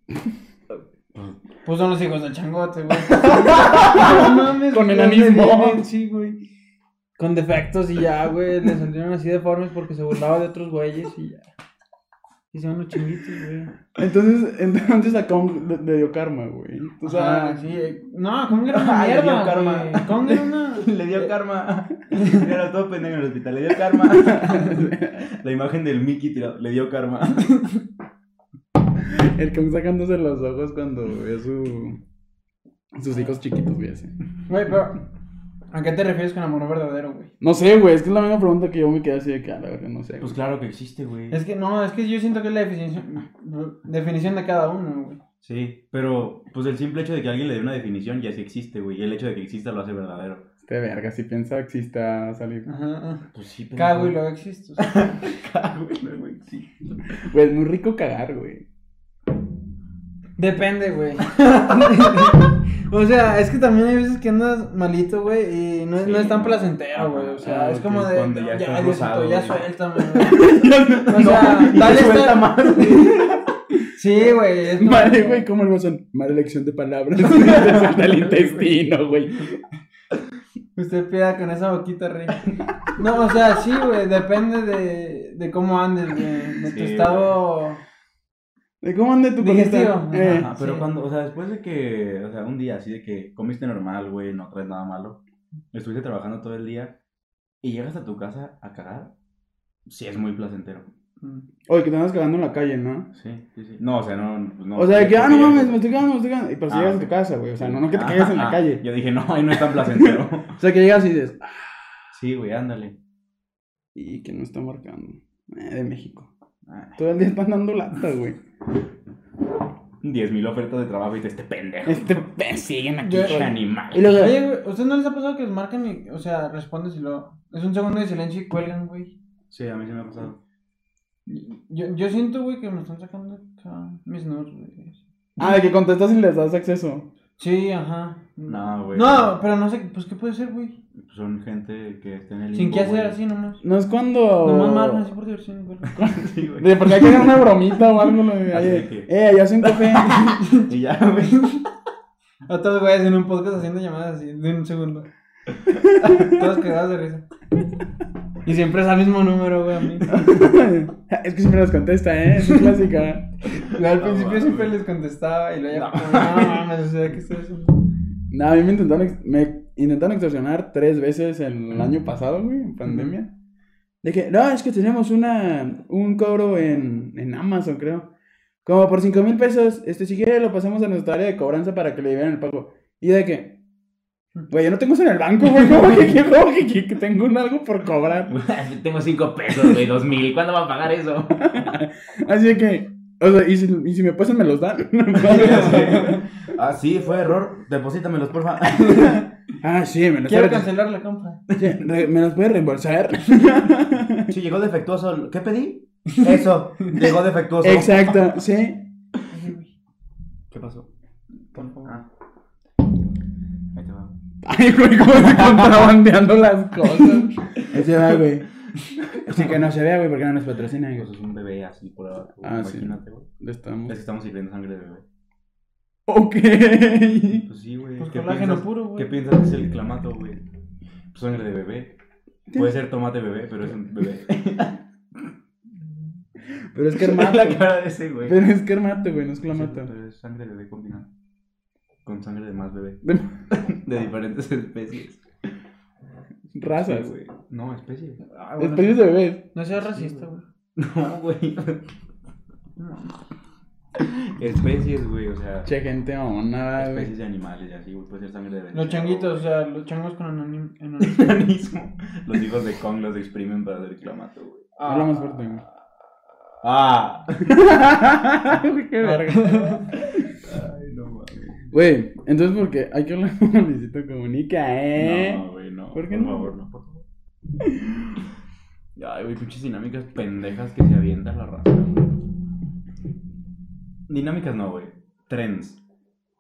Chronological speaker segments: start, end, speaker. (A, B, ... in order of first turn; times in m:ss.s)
0:00.7-0:01.4 A
0:01.6-0:06.4 B
0:03.1-0:04.2 A
0:04.0-0:05.8 C
0:07.2-0:11.5 B
0:12.5-0:13.8 B
0:14.0-0:17.6 C
0:17.0-0:21.3 B
0:18.7-0:27.7 A
0:22.1-0:22.5 B
0:24.0-0:25.3 C
0:29.0-0:32.0 C
0:33.0-0:34.1 C
0:34.5-0:35.0 B
0:35.7-0:37.3 B
0:37.4-0:40.4 C
0:40.2-0:41.4 A
0:41.3-0:45.2 B
0:45.4-0:50.5 A
0:50.6-0:52.7 C
0:52.7-0:55.0 B
0:53.3-0:54.2 A
0:54.8-0:57.2 A
0:57.2-0:58.7 C
1:00.4-1:10.5 B
1:06.0-1:13.4 A
1:07.5-1:08.0 C
1:10.2-1:11.8 C
1:11.1-1:13.1 B
1:14.0-1:15.4 B
1:14.8-1:19.6 C
1:17.2-1:18.7 A
1:20.8-1:22.4 B
1:23.0-1:27.8 B
1:26.6-1:27.4 A
1:28.8-1:30.5 C
1:29.4-1:30.9 B
1:30.2-1:35.2 A
1:35.7-1:37.0 A
1:37.6-1:39.1 A
1:39.9-1:40.9 A
1:41.2-1:41.5 B
1:41.7-1:43.1 C
1:43.1-1:45.8 A
1:44.8-1:48.8 C
1:46.7-1:50.6 A
1:49.5-1:51.9 C
1:52.1-1:53.0 A
1:54.0-1:56.3 C
1:56.7-1:57.0 A
1:57.0-1:58.4 C
2:00.0-2:02.3 A
2:01.8-2:04.4 C
2:03.0-2:09.2 B
2:03.1-2:04.2 A
2:09.5-2:10.4 A
2:11.3-2:15.0 B
2:15.4-2:17.1 C
2:17.4-2:20.8 B
2:18.5-2:19.4 A
2:21.0-2:23.2 A
2:22.5-2:23.6 B
2:23.6-2:25.0 C
2:24.4-2:26.1 B
2:25.9-2:27.7 A
2:26.6-2:30.2 C
2:28.5-2:31.7 A
2:30.1-2:30.7 B
2:32.5-2:35.1 B
2:36.0-2:37.2 B
2:38.4-2:40.1 B
2:40.1-2:43.4 C
2:43.6-2:44.8 A
2:43.6-2:47.8 B
2:45.7-2:46.6 A
2:48.3-2:53.3 C
2:52.9-2:53.2 B
2:54.0-2:58.1 C
2:58.6-3:03.6 C
3:04.5-3:08.4 C
3:08.3-3:11.8 A
3:11.4-3:16.2 C
3:15.2-3:19.2 A
3:15.2-3:16.2 B
3:18.7-3:19.3 B
3:19.6-3:20.7 C
3:20.3-3:21.4 B
3:21.6-3:24.3 C
3:24.3-3:28.2 A
3:27.0-3:28.9 C
3:29.3-3:29.7 B
3:30.5-3:30.9 A
3:31.5-3:32.1 A
3:33.7-3:34.2 A
3:34.4-3:38.5 C
3:35.3-3:35.9 A
3:38.9-3:39.6 A
3:39.3-3:41.1 C
3:40.8-3:43.3 A
3:42.4-3:44.0 C
3:43.9-3:45.0 A
3:46.1-3:47.5 C
3:47.4-3:50.4 A
3:48.0-3:49.2 B
3:51.1-3:52.0 A
3:52.6-3:54.8 A
3:56.7-3:57.7 C
3:56.9-3:58.4 A
3:58.2-3:59.9 C
3:59.5-4:01.1 A
4:02.0-4:05.2 A
4:03.0-4:03.3 C
4:06.6-4:07.1 C
4:06.6-4:08.3 A
4:08.2-4:10.4 B
4:08.6-4:09.5 C
4:09.7-4:11.9 A
4:12.8-4:13.2 B
4:14.0-4:15.7 A
4:15.7-4:17.1 C
4:16.8-4:19.4 A
4:18.7-4:21.4 B
4:21.0-4:24.7 A
4:24.8-4:25.4 B
4:24.8-4:25.6 C
4:26.6-4:27.6 A
4:27.5-4:30.2 C
4:29.0-4:29.9 B
4:30.1-4:31.7 A
4:31.7-4:35.4 C
4:35.0-4:37.0 A
4:35.9-4:36.5 C
4:37.6-4:38.2 C
4:39.0-4:42.0 A
4:44.1-4:45.8 A